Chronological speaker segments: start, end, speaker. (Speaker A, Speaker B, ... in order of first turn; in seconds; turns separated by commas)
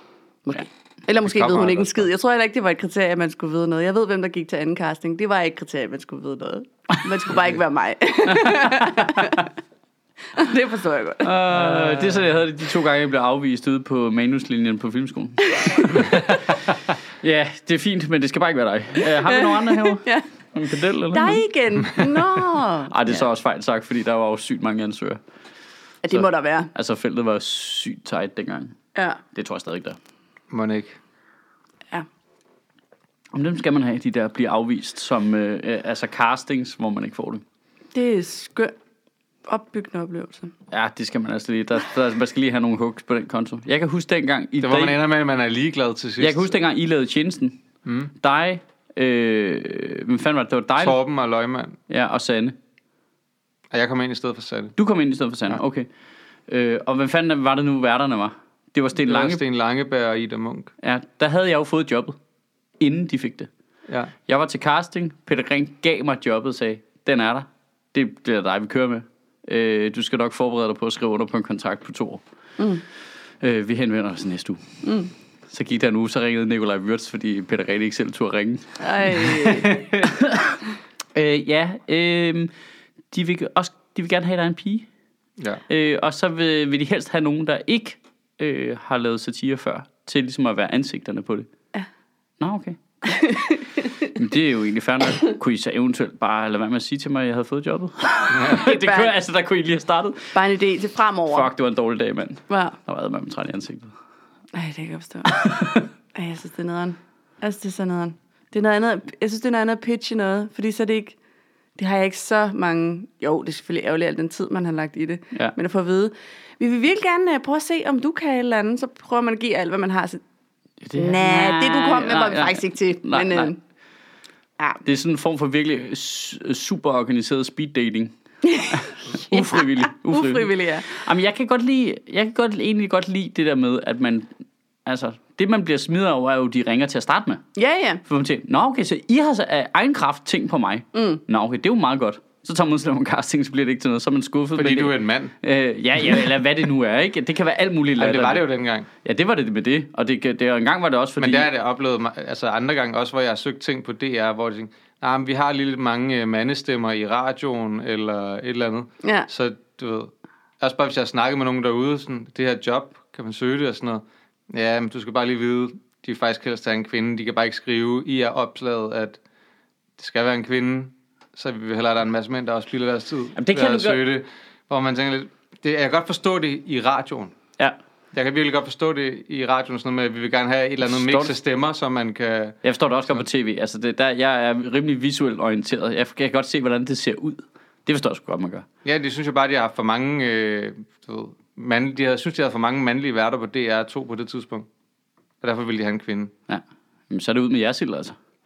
Speaker A: 0.5-9.5, Speaker B: 1.2-2.1, Speaker C: 8.3-9.3, Speaker A: 10.3-11.3, Speaker C: 11.2-21.4, Speaker B: 11.5-12.2, Speaker A: 15.6-16.1, Speaker A: 19.0-20.2, Speaker A: 21.1-23.2, Speaker C: 22.9-25.2, Speaker A: 26.0-26.7, Speaker C: 26.1-28.8, Speaker C: 29.3-30.0, Speaker B: 30.5-31.0, Speaker C: 33.3-37.4, Speaker A: 37.9-38.7, Speaker A: 39.5-40.5, Speaker C: 40.7-45.0, Speaker B: 44.6-46.5, Speaker C: 46.2-47.6, Speaker B: 47.8-48.1, Speaker C: 48.2-51.0, Speaker B: 50.8-51.8, Speaker C: 51.9-52.5, Speaker B: 53.7-54.7, Speaker C: 54.8-55.9, Speaker C: 56.5-59.4, Speaker B: 59.0-60.7, Speaker C: 60.8-62.1, Speaker C: 62.8-63.5, Speaker B: 63.9-64.1, Speaker C: 64.3-72.2, Speaker C: 73.4-74.8, Speaker A: 74.8-75.1, Speaker C: 75.5-79.3, Speaker A: 78.8-79.8, Speaker B: 79.4-80.0, Speaker C: 80.0-80.6, Speaker C: 81.1-82.5, Speaker C: 83.1-84.9, Speaker C: 85.7-91.5, Speaker C: 92.4-93.3, Speaker A: 93.1-93.6, Speaker C: 94.0-100.3, Speaker B: 98.3-98.6, Speaker A: 98.5-99.1, Speaker A: 100.3-101.5, Speaker C: 101.3-103.9, Speaker A: 102.5-102.8, Speaker A: 104.5-111.2, Speaker C: 105.3-105.8, Speaker A: 111.8-120.2, Speaker C: 120.8-123.5, Speaker A: 120.9-123.6, Speaker C: 124.8-128.1, Speaker A: 128.4-130.9, Speaker C: 128.7-134.3, Speaker C: 134.8-137.4, Speaker A: 137.6-138.0, Speaker C: 138.1-148.4, Speaker A: 140.9-141.2, Speaker B: 144.5-145.3, Speaker B: 148.0-148.9, Speaker C: 149.0-151.5, Speaker B: 151.2-169.2, Speaker A: 159.0-159.3, Speaker B: 170.0-177.3, Speaker C: 173.3-174.0, Speaker B: 178.1-182.6, Speaker C: 180.8-181.3, Speaker C: 182.6-188.7, Speaker B: 188.8-194.7, Speaker B: 195.4-196.3, Speaker C: 196.5-198.2